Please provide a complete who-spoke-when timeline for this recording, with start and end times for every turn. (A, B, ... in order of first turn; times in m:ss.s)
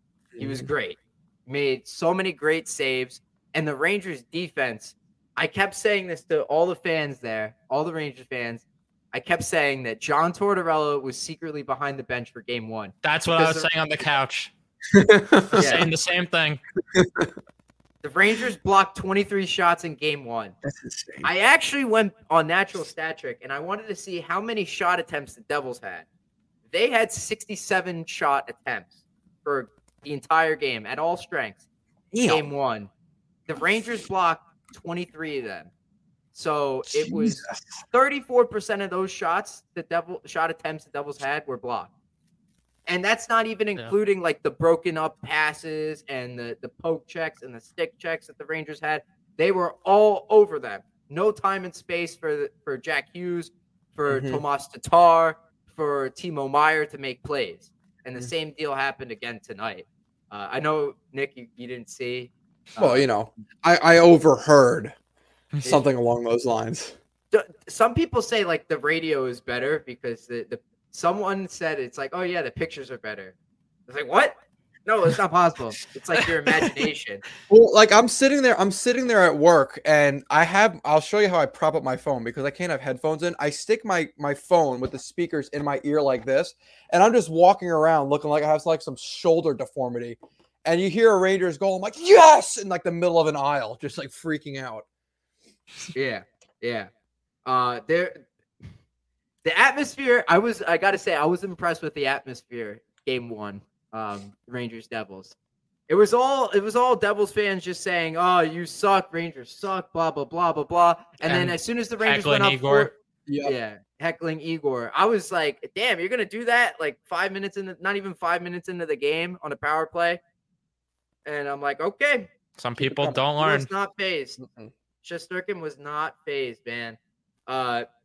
0:00.3-0:00.7 A
0:00.4-0:13.7 B
0:13.0-0:14.5 C
0:14.9-0:15.8 A
0:15.5-0:16.6 C
0:15.6-0:15.9 B
0:16.9-0:17.3 A
0:18.0-0:20.5 B
0:20.6-0:21.3 A
0:21.2-0:26.0 B
0:26.7-0:31.6 B
0:32.1-0:32.5 A
0:32.2-0:32.9 B
0:33.5-0:35.7 B
0:36.3-0:41.9 B
0:36.9-0:37.8 A
0:42.9-1:03.1 B
0:54.1-0:54.4 A
1:02.8-1:04.9 A
1:05.6-1:07.0 A
1:07.3-1:13.3 B
1:13.9-1:14.3 B
1:14.8-1:17.2 B
1:17.4-1:34.8 A
1:35.9-1:36.9 B
1:37.4-1:38.3 B
1:39.4-1:45.3 B
1:45.9-1:52.9 B
1:51.2-1:52.9 C
1:53.2-1:53.5 A
1:53.4-2:00.2 B
2:01.2-2:02.3 B
2:02.6-2:03.7 C
2:02.8-2:03.2 A
2:03.4-2:04.4 B
2:04.4-2:04.7 A
2:05.0-2:07.8 B